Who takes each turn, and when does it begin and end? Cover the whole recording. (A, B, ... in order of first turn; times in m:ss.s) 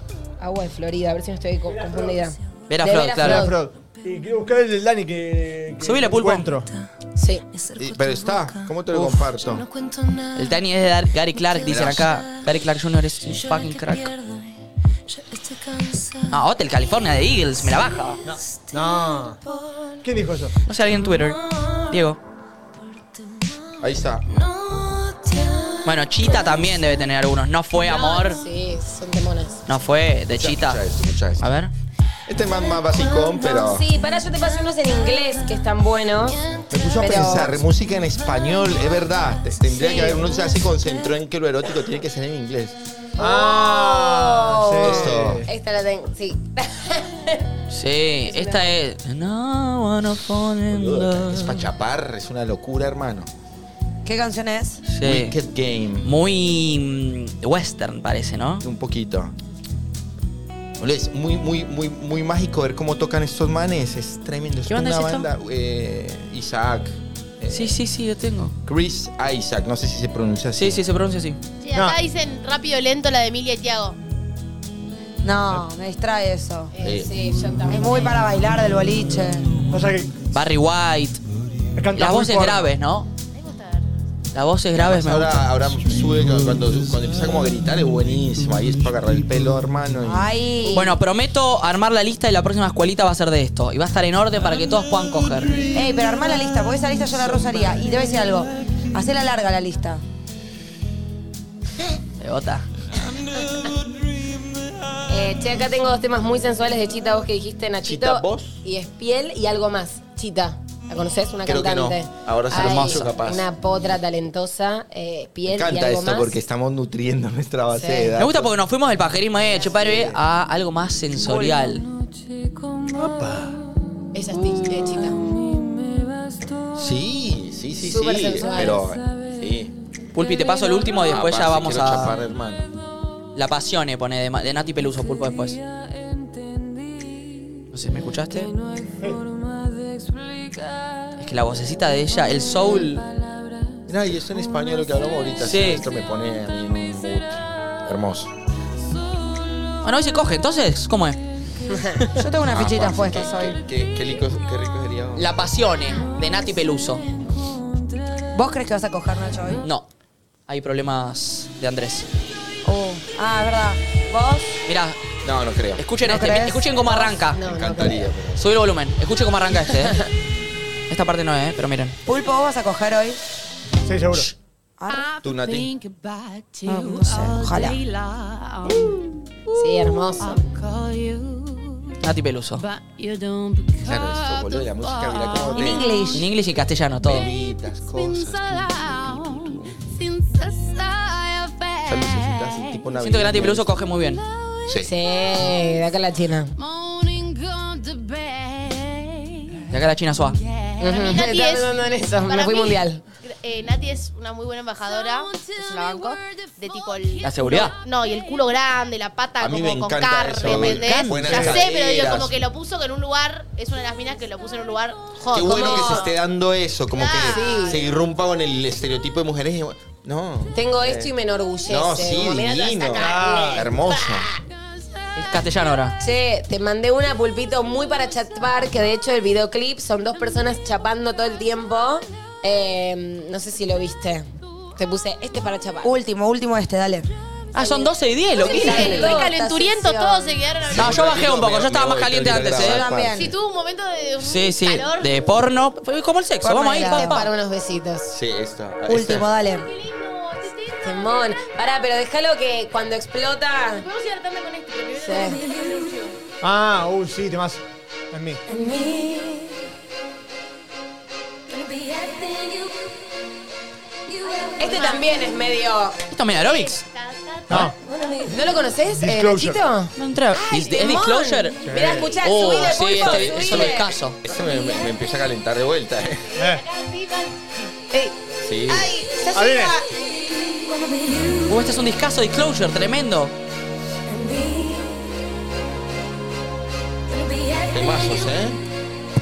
0:00.4-0:03.6 A
0:01.7-0:02.2 B
0:02.7-0:03.5 C
0:03.2-0:06.7 B
0:05.8-0:06.5 C
0:07.2-0:07.4 A
0:07.8-0:09.7 D
0:08.9-0:09.2 C
0:10.4-0:14.2 C
0:11.6-0:12.2 D
0:16.3-0:18.2 C
0:18.2-0:19.4 B
0:20.0-0:20.6 B
0:20.7-0:22.2 C
0:23.8-0:24.2 D
0:25.8-0:28.4 C
0:26.2-0:26.6 D
0:27.8-0:29.6 A
0:29.7-0:30.8 C
0:30.4-0:31.4 D
0:31.4-0:31.7 C
0:32.3-0:33.8 D
0:33.4-0:37.6 A
0:36.7-0:42.8 D
0:39.7-0:40.3 A
0:43.2-0:45.5 B
0:43.2-0:47.5 A
0:44.8-0:45.5 D
0:47.7-0:51.6 C
0:48.3-0:48.7 A
0:50.7-0:53.3 D
0:54.0-0:54.8 E
0:54.9-0:55.4 C
0:55.0-0:56.1 D
0:56.0-0:58.6 C
0:58.6-0:59.3 D
1:00.8-1:07.8 D
1:04.7-1:05.3 C
1:07.5-1:08.5 C
1:08.6-1:10.8 D
1:10.6-1:11.4 C
1:11.6-1:14.0 F
1:11.7-1:12.0 B
1:15.2-1:16.7 E
1:16.8-1:18.2 A
1:16.8-1:17.6 D
1:17.7-1:19.5 E
1:19.7-1:20.1 B
1:20.3-1:21.2 C
1:21.8-1:22.7 B
1:22.0-1:23.1 C
1:23.3-1:23.9 F
1:24.3-1:25.5 C
1:24.8-1:30.3 D
1:30.0-1:31.0 E
1:30.7-1:35.7 C
1:35.7-1:40.0 E
1:42.2-1:42.7 C
1:45.1-1:56.4 A
1:47.8-1:48.6 D
1:51.5-1:53.5 D
1:52.5-1:53.1 C
1:55.5-1:58.5 D
1:57.8-1:58.1 A
1:58.2-2:01.8 C
1:59.8-2:00.2 D
2:04.1-2:05.3 A
2:06.8-2:09.7 D
2:07.8-2:08.8 A
2:10.1-2:12.2 C
2:11.0-2:12.7 D
2:13.4-2:15.6 C
2:17.7-2:18.5 C
2:21.2-2:23.1 C
2:23.9-2:28.3 D
2:25.4-2:25.8 C
2:29.8-2:31.2 C
2:31.7-2:32.0 A
2:32.2-2:33.6 E
2:32.5-2:35.3 D
2:35.2-2:37.0 C
2:38.3-2:39.6 E
2:40.5-2:42.1 C
2:42.6-2:44.6 E
2:44.7-2:45.0 C
2:45.2-2:45.9 D
2:45.8-2:47.4 C
2:46.0-2:46.6 E
2:46.8-2:48.2 A
2:47.4-2:48.4 D
2:48.4-2:50.0 C
2:50.9-2:52.0 C
2:52.1-2:53.2 E
2:53.8-2:54.3 B
2:54.8-2:55.1 E
2:55.2-2:55.7 D
2:56.6-2:57.8 E
2:59.6-3:00.4 A
3:02.0-3:02.6 C
3:03.8-3:05.9 D
3:05.5-3:06.3 E
3:06.1-3:07.3 C
3:07.0-3:09.8 D
3:11.8-3:13.7 D
3:13.0-3:14.2 C
3:14.8-3:16.5 A
3:19.7-3:20.4 C
3:20.8-3:23.0 A
3:20.8-3:36.2 F
3:27.2-3:27.7 C
3:29.4-3:32.4 D
3:30.4-3:31.5 C
3:31.3-3:31.6 B
3:35.3-3:41.1 D
3:35.3-3:36.1 A
3:36.9-3:37.8 F
3:37.2-3:37.8 A
3:40.5-3:44.3 A
3:41.7-3:44.3 D
3:43.0-3:43.7 B
3:45.2-3:46.0 C
3:46.0-3:55.9 A
3:55.8-3:57.1 E
3:57.5-3:59.1 C
3:57.6-4:00.4 A
3:58.4-4:01.4 F
4:00.7-4:03.3 D
4:00.8-4:02.8 C
4:02.5-4:03.3 E
4:03.1-4:05.2 F
4:04.2-4:07.3 C
4:06.4-4:07.2 E
4:06.9-4:08.1 A
4:08.1-4:09.3 D
4:08.9-4:09.7 E
4:09.4-4:11.5 F
4:10.8-4:13.8 A
4:13.8-4:16.2 F
4:15.0-4:15.4 A
4:16.4-4:18.4 B
4:18.5-4:19.5 A
4:24.4-4:25.1 F
4:24.6-4:26.0 A
4:26.1-4:26.8 C
4:26.4-4:27.7 F
4:27.5-4:27.8 B
4:27.6-4:29.9 A
4:29.0-4:29.6 B
4:30.0-4:34.2 C
4:30.4-4:33.9 A
4:31.6-4:32.2 B
4:32.4-4:33.6 E
4:33.0-4:36.3 D
4:36.4-4:37.3 F
4:36.4-4:36.6 B
4:37.9-4:39.9 A
4:38.4-4:39.0 D
4:39.3-4:39.8 B
4:41.5-4:43.3 C
4:44.1-4:44.7 A
4:47.7-4:48.6 D